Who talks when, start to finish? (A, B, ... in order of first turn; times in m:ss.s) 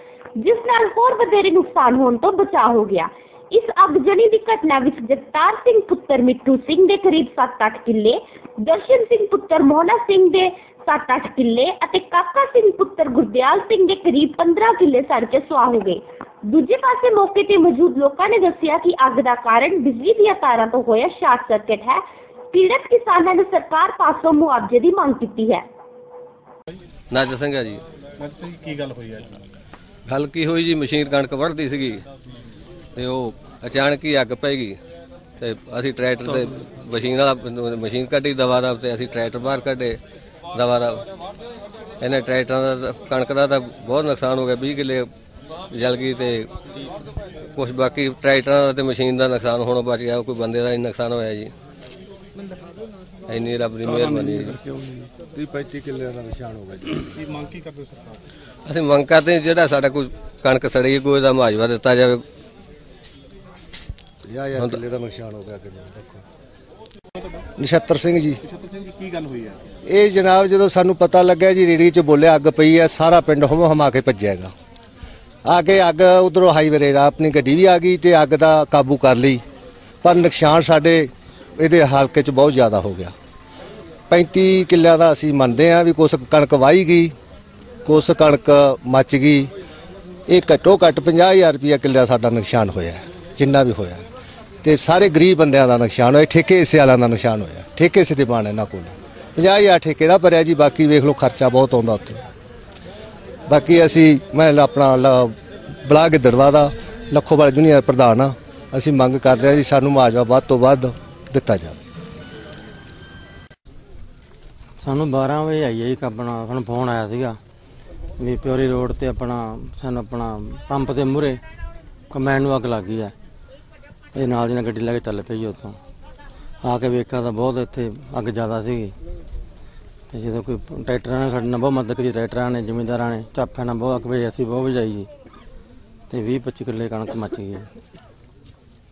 0:00.4-0:25.6 A
0:27.1-0:27.8 B
0:28.2-0:29.4 C
0:30.1-0:32.0 B
0:33.0-0:34.8 B
0:35.4-0:40.0 B
0:40.5-0:41.0 B
0:42.0-0:45.1 B
0:45.7-0:46.5 B
0:47.6-0:51.5 B
0:53.3-0:54.5 B
0:54.3-0:55.1 D
0:55.3-0:57.1 E
0:57.2-0:58.2 C
0:58.7-1:02.2 B
1:04.2-1:06.2 E
1:07.6-1:08.4 E
1:08.4-1:09.6 C
1:09.9-1:14.5 E
1:15.5-1:19.4 E
1:20.0-1:23.1 E
1:24.1-1:27.1 E
1:27.8-1:29.5 E
1:30.3-1:34.0 E
1:34.6-1:42.2 E
1:43.5-1:51.8 E
1:54.8-1:57.4 D
1:58.2-2:01.4 D
2:02.1-2:03.1 D
2:04.1-2:05.8 D
2:06.6-2:09.0 D
2:10.1-2:15.1 D
2:16.1-2:17.7 D